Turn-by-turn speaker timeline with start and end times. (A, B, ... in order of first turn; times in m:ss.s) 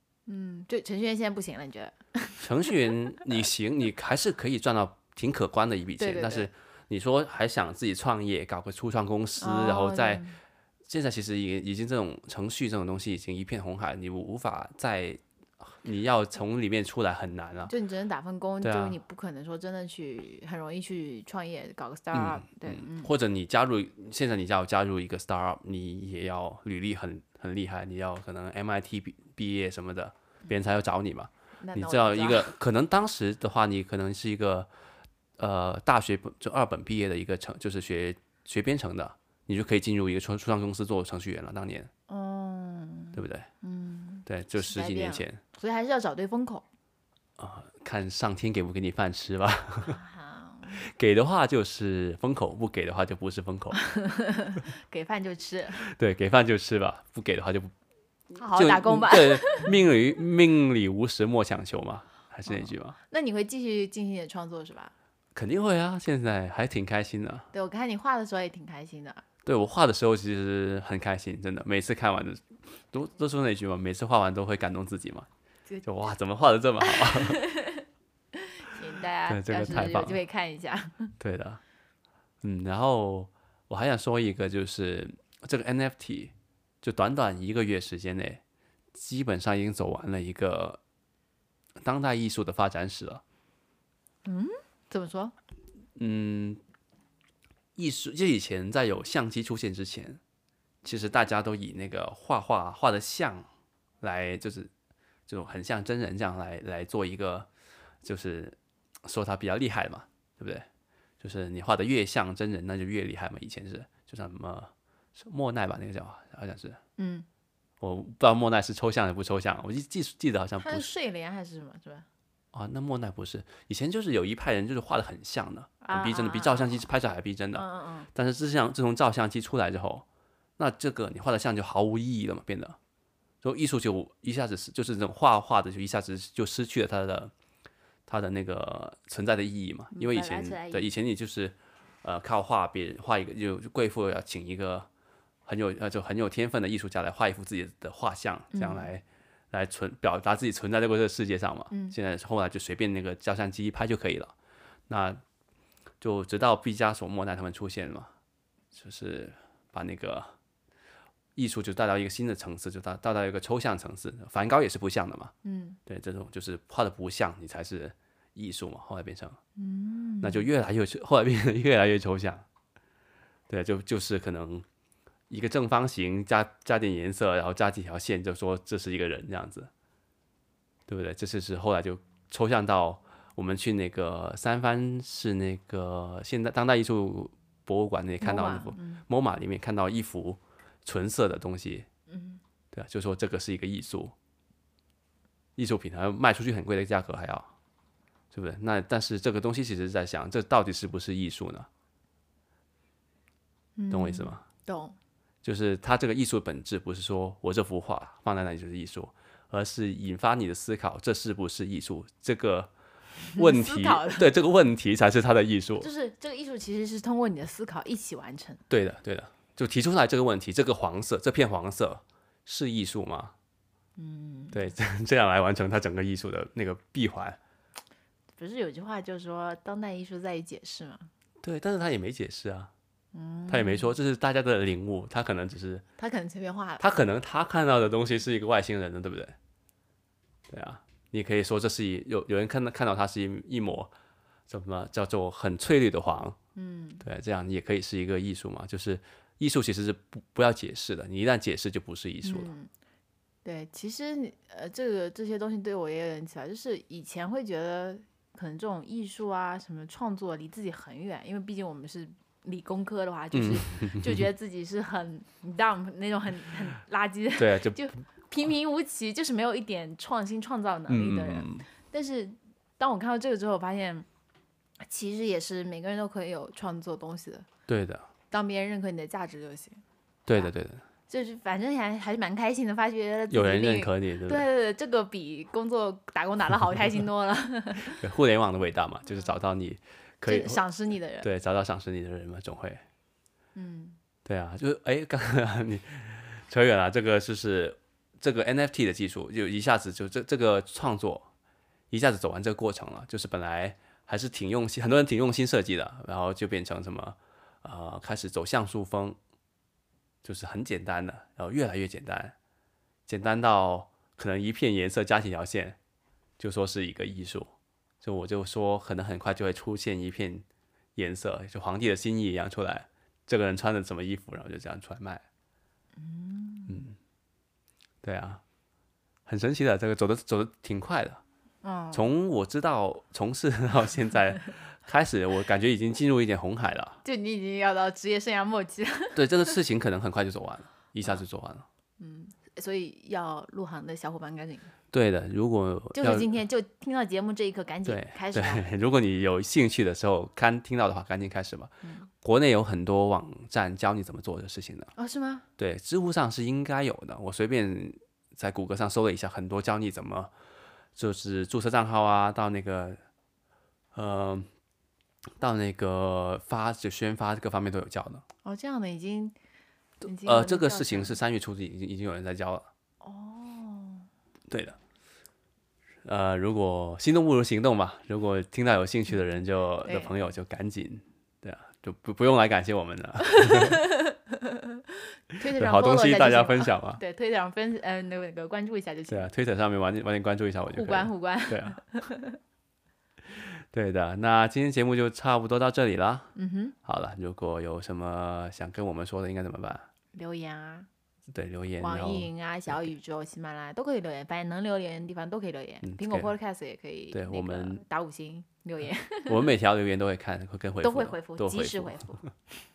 0:00.3-0:03.0 A
0:02.4-0:10.2 B
0:06.0-0:06.5 A
0:09.4-0:10.4 A
0:10.9-0:17.7 B
0:17.7-0:23.1 A
0:18.6-0:19.0 B
0:22.1-0:34.7 B
0:31.6-0:32.5 A
0:35.4-0:41.9 B
0:42.1-0:46.7 A
0:43.1-0:43.5 B
0:44.3-0:45.4 B
0:47.4-0:50.0 B
0:49.8-0:50.8 A
0:50.8-0:53.8 B
0:53.7-0:55.9 A
0:55.8-0:57.7 B
0:58.4-0:59.7 A
0:58.4-1:03.0 B
1:02.5-1:04.9 A
1:05.4-1:07.5 B
1:07.5-1:09.2 A
1:09.4-1:15.3 B
1:15.8-1:17.4 B
1:16.8-1:21.1 A
1:19.3-1:20.2 B
1:21.2-1:21.6 B
1:22.4-1:28.4 B
1:28.9-1:30.8 B
1:31.8-1:33.2 B
1:34.3-1:35.3 A
1:36.0-1:36.6 B
1:37.8-1:40.2 B
1:40.8-1:43.5 B
1:44.0-1:44.7 B
1:45.3-1:47.5 B
1:48.0-1:50.7 B
1:51.2-1:56.8 B
1:57.0-1:57.3 A
1:57.8-2:00.9 B
2:00.6-2:02.1 A
2:02.5-2:10.1 B
2:05.8-2:06.9 A
2:07.6-2:08.1 A
2:10.6-2:12.8 B
2:13.4-2:17.3 B
2:18.1-2:24.9 B
2:19.9-2:20.9 A
2:25.5-2:34.3 B
2:28.5-2:28.9 A
2:34.9-2:35.2 B
2:36.0-2:38.1 B
2:38.7-2:40.4 B
2:41.4-2:45.3 B
2:45.4-2:45.8 A
2:45.9-2:49.4 B
2:49.6-2:50.5 A
2:50.2-2:52.5 B
2:53.5-2:54.7 B
2:55.3-2:59.7 B
3:00.9-3:11.9 B
3:08.2-3:09.0 A
3:12.1-3:12.4 A
3:12.7-3:14.1 B
3:15.6-3:17.5 B
3:18.3-3:21.7 B
3:23.8-3:25.0 A
3:23.9-3:24.4 B
3:25.4-3:32.7 B
3:33.3-3:34.3 A
3:33.4-3:35.9 B
3:35.8-3:38.6 A
3:38.7-3:43.3 B
3:44.0-3:44.7 A
3:44.5-3:47.4 B
3:48.4-3:51.1 A
3:51.4-3:52.7 B
3:53.1-3:54.0 A
3:53.5-3:55.8 B
3:56.0-3:56.9 A
3:56.8-3:59.4 B
4:00.5-4:03.9 B
4:04.5-4:06.4 B
4:06.6-4:07.0 A
4:07.0-4:12.5 B
4:12.2-4:12.7 A
4:13.4-4:34.1 A
4:23.3-4:24.3 B
4:27.4-4:27.8 B
4:30.9-4:31.7 B
4:34.9-4:37.5 A
4:37.7-4:38.1 B
4:38.3-4:39.8 A
4:40.3-4:40.8 B
4:41.1-4:48.0 A
4:43.3-4:44.5 B
4:47.9-4:50.6 B
4:50.3-4:51.3 A
4:51.2-4:52.8 B
4:53.6-4:54.0 A
4:54.2-5:01.3 B
5:01.9-5:09.2 B
5:10.2-5:12.4 B
5:13.1-5:15.8 B
5:16.4-5:17.5 B
5:18.0-5:20.4 B
5:21.0-5:25.2 B
5:26.0-5:26.8 A
5:26.7-5:27.0 B
5:28.0-5:28.4 B
5:29.3-5:31.2 B
5:31.6-5:32.1 A
5:31.9-5:37.0 B
5:37.0-5:39.6 A
5:39.2-5:41.7 B
5:42.0-5:44.7 A
5:44.9-5:46.3 B
5:46.0-5:48.7 A
5:47.9-5:54.9 B
5:51.8-5:52.1 A
5:55.0-5:55.5 A
5:55.6-6:00.3 B
6:01.0-6:03.0 B
6:03.9-6:04.5 B
6:05.4-6:08.2 B
6:08.4-6:09.4 A
6:10.0-6:12.7 B
6:10.0-6:11.2 A
6:13.0-6:14.1 A
6:14.5-6:14.8 B
6:16.0-6:23.8 B
6:19.8-6:20.1 A
6:23.2-6:29.3 A
6:25.6-6:27.0 B
6:29.1-6:31.8 B
6:30.7-6:32.4 A
6:33.4-6:36.3 B
6:36.4-6:36.8 A
6:36.8-6:39.9 B
6:40.1-6:40.9 A
6:41.3-6:42.9 B
6:41.8-6:49.5 A
6:45.8-6:46.3 B
6:47.1-6:47.8 B
6:49.3-6:52.2 B
6:50.8-6:52.2 A